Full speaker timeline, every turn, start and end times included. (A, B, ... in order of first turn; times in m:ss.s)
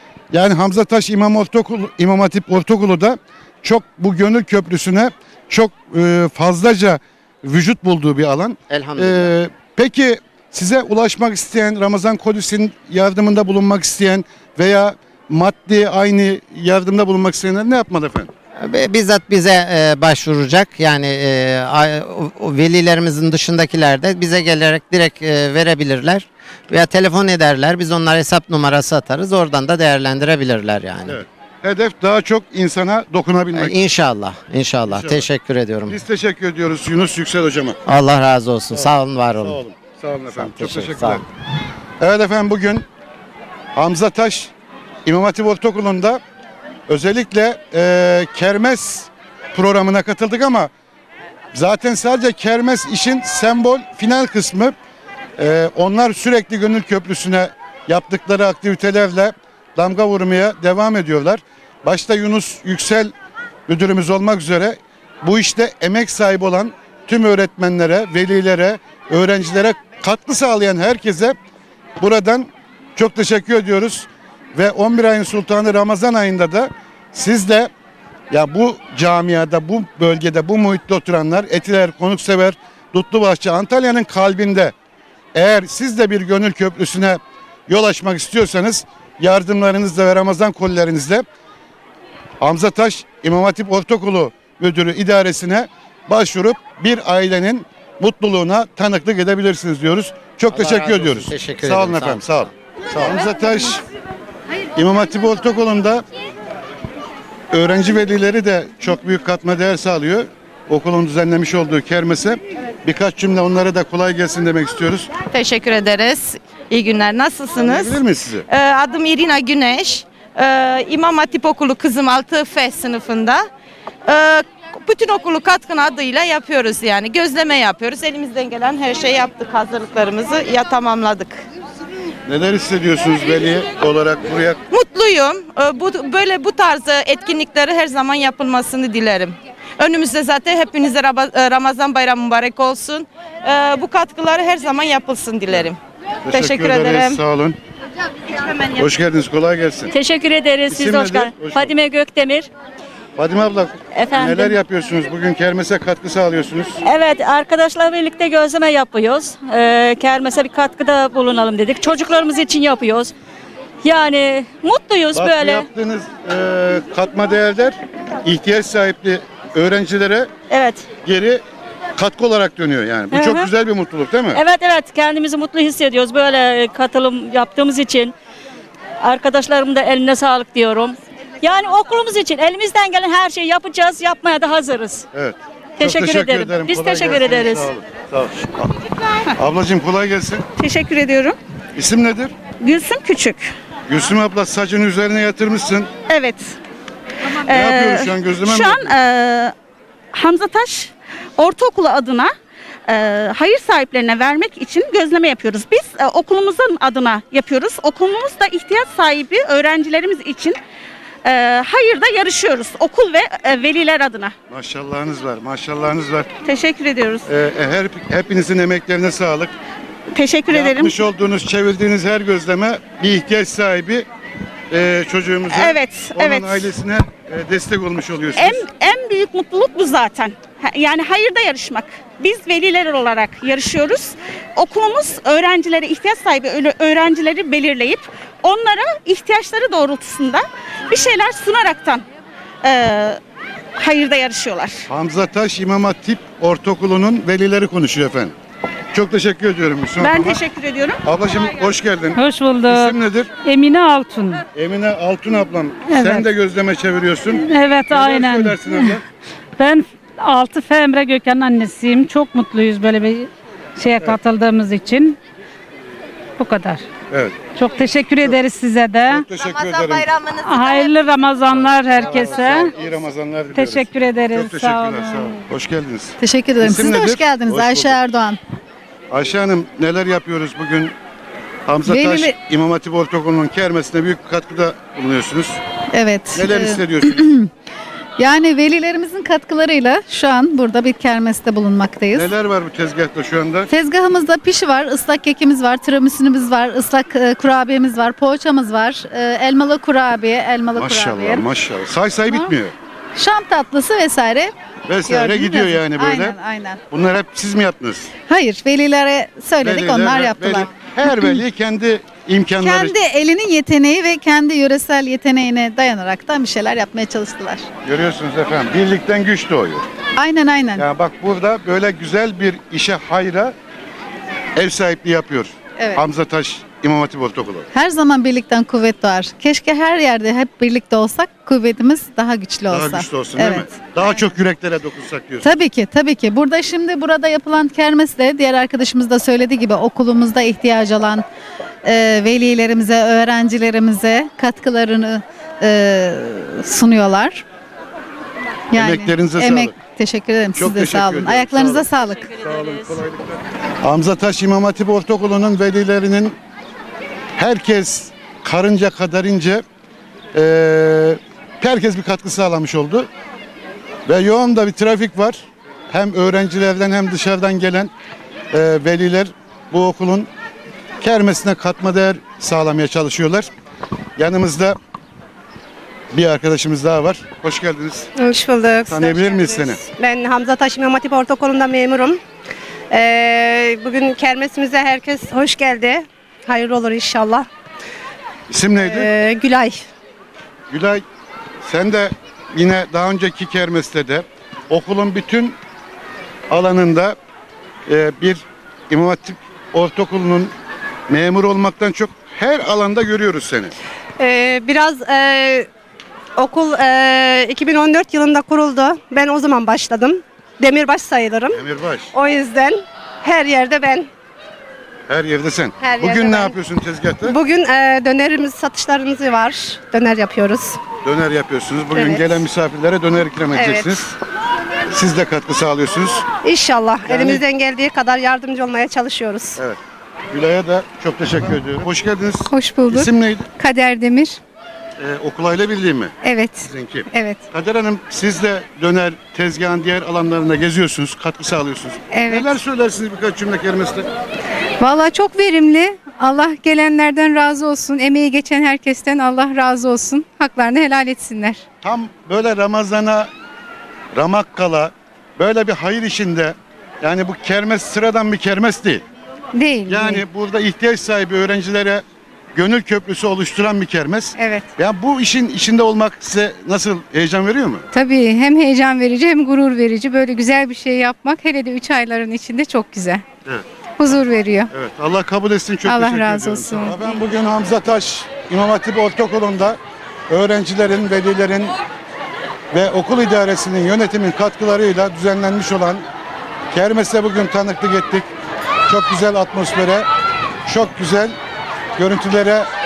0:00.3-0:18.3 A
0:08.7-0:09.3 B
0:18.6-0:31.2 B
0:31.1-0:33.7 A
0:33.6-0:36.0 B
0:34.9-0:35.3 A
0:35.9-0:37.8 A
0:37.8-0:39.6 B
0:38.7-0:41.2 A
0:40.3-0:41.2 B
0:42.0-0:42.8 A
0:43.8-0:44.5 A
0:45.0-0:46.2 A
0:46.9-0:50.7 A
0:51.5-0:54.8 A
0:55.4-1:03.1 A
1:03.7-1:11.4 A
1:12.0-1:17.7 A
1:18.3-1:24.7 A
1:25.4-1:31.3 A
1:32.4-1:43.8 A
1:40.5-1:42.5 B
1:44.8-1:46.0 A
1:47.5-1:55.1 A
1:55.3-2:03.5 C
1:57.6-1:58.5 A
2:04.0-2:11.4 C
2:12.3-2:14.6 A
2:14.7-2:25.8 C
2:26.3-2:27.6 A
2:26.3-2:27.2 C
2:28.8-2:29.9 A
2:29.9-2:32.5 D
2:30.7-2:31.7 A
2:33.2-2:36.8 A
2:34.0-2:34.6 D
2:36.8-2:43.1 D
2:43.8-2:45.7 D
2:45.1-2:50.3 A
2:50.5-2:50.9 D
2:51.0-2:51.4 A
2:52.0-2:54.4 A
2:53.1-2:53.5 D
2:54.3-2:58.1 D
2:59.0-3:05.0 D
3:05.1-3:08.7 A
3:05.8-3:07.7 D
3:09.4-3:10.5 A
3:10.6-3:11.4 E
3:11.8-3:12.3 A
3:12.6-3:13.5 E
3:13.9-3:15.9 A
3:16.1-3:16.6 E
3:17.5-3:19.5 E
3:17.5-3:19.0 A
3:20.1-3:22.3 E
3:22.9-3:30.6 E
3:31.2-3:34.3 E
3:34.5-3:36.3 A
3:36.4-3:37.3 E
3:37.2-3:39.5 A
3:40.2-3:41.0 E
3:40.5-3:44.1 A
3:44.7-3:48.6 A
3:45.5-3:46.7 E
3:48.4-4:02.0 E
4:02.6-4:03.2 E
4:03.8-4:04.8 E
4:04.9-4:08.4 A
4:08.9-4:10.4 A
4:10.0-4:11.0 E
4:11.0-4:13.3 A
4:12.2-4:14.4 F
4:14.5-4:19.0 A
4:15.9-4:16.3 F
4:17.4-4:19.0 F
4:19.6-4:25.2 F
4:26.4-4:26.8 F
4:27.1-4:27.4 A
4:27.6-4:29.3 F
4:29.1-4:30.3 A
4:30.2-4:32.7 F
4:31.5-4:38.0 A
4:33.5-4:35.4 F
4:36.2-4:38.4 G
4:39.1-4:41.0 A
4:41.7-4:45.6 A
4:41.9-4:42.3 G
4:45.9-4:47.5 G
4:46.3-4:47.3 A
4:48.2-4:52.3 G
4:52.1-4:53.7 A
4:53.7-5:01.5 G
5:00.8-5:02.7 A
5:02.3-5:02.5 G
5:03.2-5:04.5 G
5:04.9-5:06.4 A
5:05.1-5:06.8 G
5:06.9-5:08.1 A
5:08.3-5:11.4 G
5:09.6-5:13.0 A
5:12.6-5:17.7 G
5:17.8-5:19.9 A
5:20.2-5:20.9 G
5:20.8-5:23.5 A
5:24.6-5:27.7 A
5:25.8-5:26.0 G
5:27.7-5:34.1 G
5:32.7-5:35.5 A
5:35.4-5:41.3 G
5:41.8-5:47.4 G
5:48.7-5:52.3 G
5:48.7-5:49.8 A
5:50.6-5:53.3 A
5:53.8-5:56.4 A
5:57.4-5:59.6 A
6:00.3-6:03.1 A
6:04.1-6:07.9 A
6:08.5-6:10.3 A
6:11.0-6:13.5 A
6:14.2-6:14.8 A
6:16.1-6:18.1 A
6:18.2-6:22.2 H
6:18.9-6:19.8 A
6:22.9-6:27.5 H
6:28.5-6:29.1 A
6:28.8-6:29.8 H
6:30.7-6:31.0 A
6:31.6-6:35.6 A
6:36.5-6:37.2 A
6:37.9-6:40.5 A
6:41.1-6:43.7 A
6:44.2-6:45.7 H
6:46.4-6:51.6 H
6:51.5-6:52.1 A
6:52.1-6:54.1 H
6:55.1-6:57.4 A
6:55.8-6:56.6 H
6:57.3-7:00.8 H
7:01.0-7:04.0 A
7:02.0-7:02.4 H
7:03.5-7:04.1 H
7:04.9-7:06.3 A
7:06.4-7:09.6 H
7:07.0-7:07.4 A
7:10.3-7:13.5 A
7:12.5-7:14.4 I
7:15.0-7:24.1 A
7:16.2-7:17.4 I
7:22.1-7:22.6 I
7:24.8-7:31.6 I
7:31.8-7:33.3 A
7:34.1-7:39.0 A
7:39.6-7:40.2 I
7:39.9-7:47.8 A
7:44.4-7:44.7 I
7:47.9-7:53.2 I
7:54.0-7:54.7 I
7:54.7-8:01.8 A
7:55.9-7:57.0 I
8:02.7-8:06.0 A
8:06.7-8:08.3 A
8:08.9-8:10.1 A
8:10.6-8:11.4 A
8:12.0-8:12.7 A